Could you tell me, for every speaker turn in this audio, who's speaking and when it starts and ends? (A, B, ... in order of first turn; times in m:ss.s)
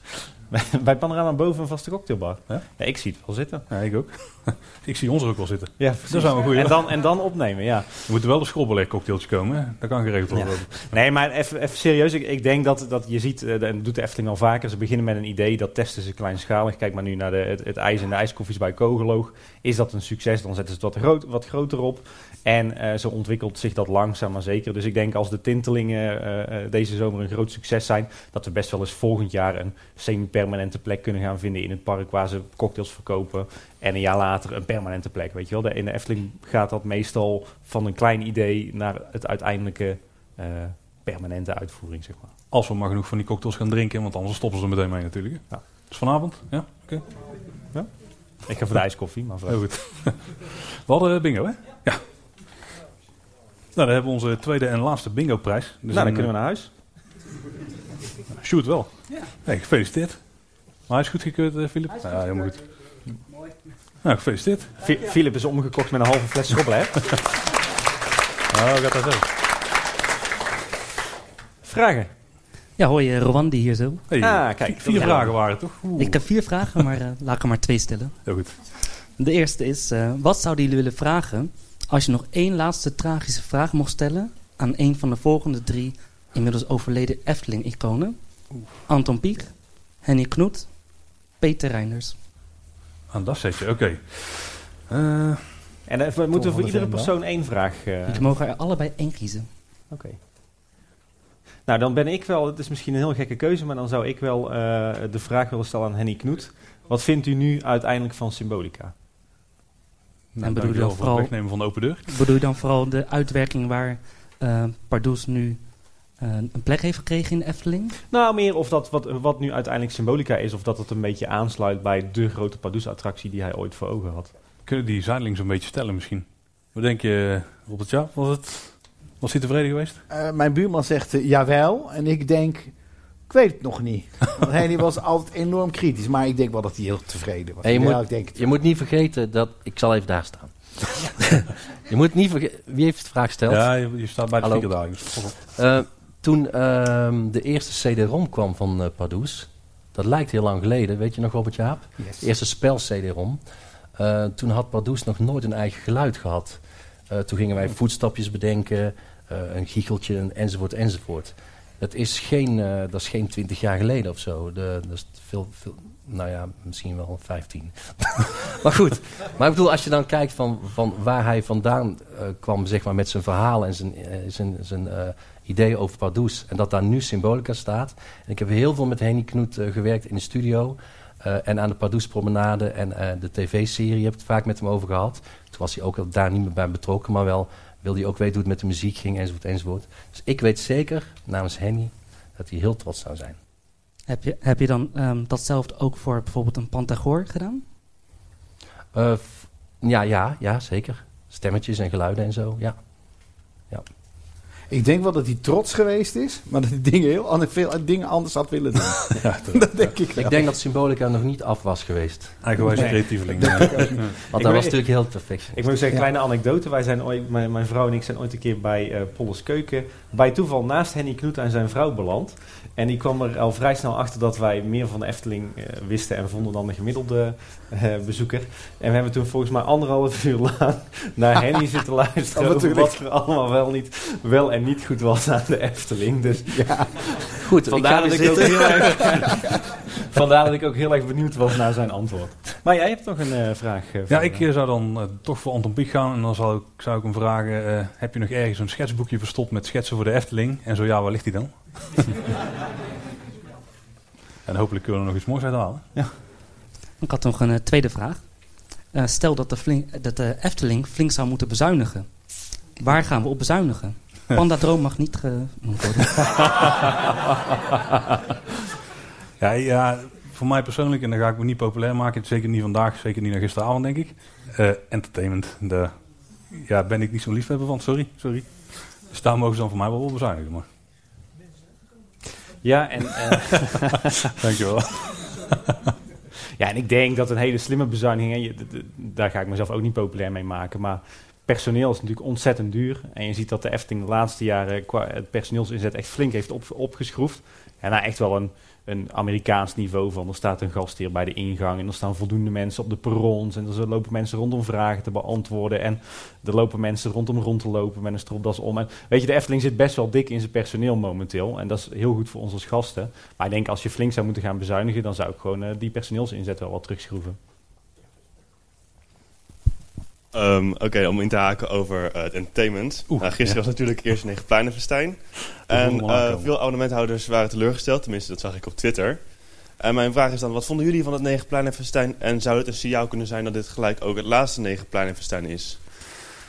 0:00.5-0:03.6 A
0:03.7-0:06.9 B
0:05.8-0:08.1 A
0:08.0-0:10.9 B
0:10.3-0:42.3 A
0:42.5-0:47.0 B
0:47.7-0:49.6 A
0:49.5-0:52.0 B
0:53.7-0:56.3 B
0:55.9-0:56.7 A
0:58.4-1:02.6 B
1:04.0-1:04.7 B
1:04.8-1:07.2 A
1:08.5-1:09.2 B
1:11.6-1:12.1 A
1:12.8-1:14.0 C
1:14.1-1:16.9 B
1:14.2-1:15.6 A
1:16.0-1:18.4 C
1:18.2-1:18.8 B
1:19.2-1:32.2 C
1:33.1-1:35.8 B
1:35.9-1:38.2 A
1:36.4-1:36.9 D
1:38.1-1:39.5 C
1:39.9-1:40.2 A
1:41.6-1:48.9 A
1:50.3-1:52.1 B
1:50.4-1:58.0 C
1:58.1-2:04.3 A
2:04.6-2:10.0 B
2:10.1-2:18.5 D
2:17.6-2:33.4 E
2:23.5-2:25.4 B
2:32.0-2:32.3 D
2:34.0-3:13.4 E
3:14.1-3:17.6 C
3:18.9-3:23.8 E
3:24.7-3:30.5 D
3:29.2-3:29.9 B
3:30.1-3:32.6 E
3:32.4-3:34.1 B
3:32.6-3:34.1 D
3:32.7-4:04.5 A
3:34.3-3:35.8 E
3:52.3-3:53.0 D
3:57.4-3:59.3 E
4:04.1-4:12.2 B
4:14.4-4:15.9 B
4:17.0-4:26.5 C
4:29.4-4:40.6 B
4:42.6-4:44.1 A
4:44.4-4:45.6 B
4:46.6-5:17.4 A
5:20.3-5:36.1 F
5:23.1-5:23.6 B
5:25.7-5:26.5 B